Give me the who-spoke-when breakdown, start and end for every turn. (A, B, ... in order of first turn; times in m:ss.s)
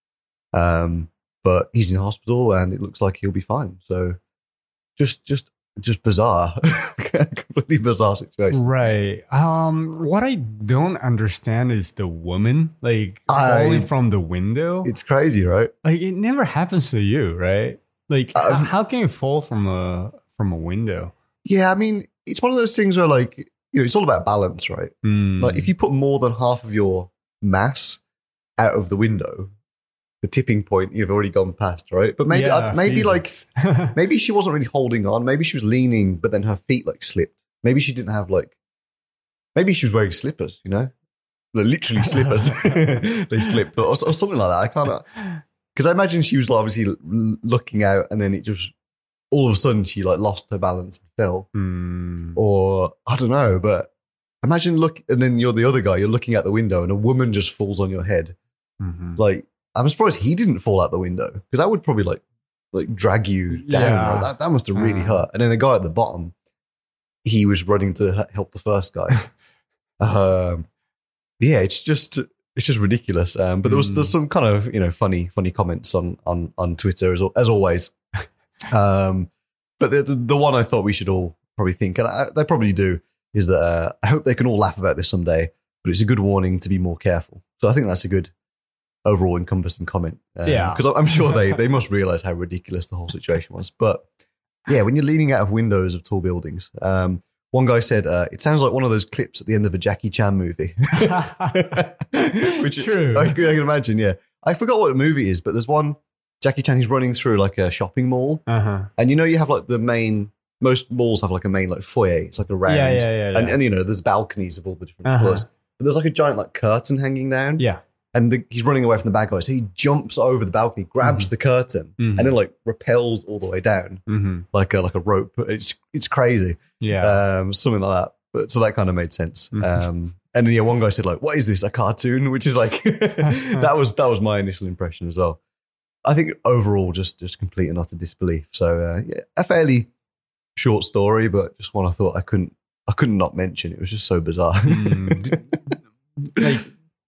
0:00.5-0:04.2 A
0:05.0-0:08.6 A
0:08.5-0:14.9 B
0:13.3-0:13.9 A
0:14.8-0:15.7 A
0:15.8-0:21.1 B
0:18.3-0:18.7 A
0:21.4-0:28.0 A
0:25.0-0:25.7 B
0:28.6-0:29.5 A
0:30.2-0:33.3 A
0:32.3-0:34.0 B
0:33.9-0:38.6 A
0:39.5-0:40.9 A
0:41.5-0:45.1 A
0:42.0-0:43.0 B
0:45.7-0:48.7 A
0:49.3-0:51.5 A
0:51.5-0:52.4 B
0:52.4-0:53.9 A
0:54.4-0:58.4 A
0:58.8-0:59.2 B
0:59.2-1:02.2 A
1:02.7-1:06.3 A
1:03.5-1:05.2 B
1:07.2-1:09.2 A
1:10.0-1:10.7 A
1:11.4-1:17.9 A
1:13.6-1:14.1 B
1:18.7-1:28.3 A
1:29.0-1:34.1 A
1:30.4-1:31.5 B
1:34.7-1:48.4 A
1:41.0-1:41.8 B
1:42.4-1:43.4 B
1:48.5-1:48.9 B
1:49.0-2:15.4 A
1:52.6-1:53.6 B
1:55.0-1:55.4 B
2:01.0-2:01.3 B
2:02.0-2:02.3 B
2:04.1-2:04.4 B
2:06.8-2:07.2 B
2:09.5-2:09.8 B
2:13.2-2:13.6 B
2:16.0-2:19.9 A
2:20.6-2:25.4 A
2:24.6-2:25.6 B
2:26.2-2:26.7 B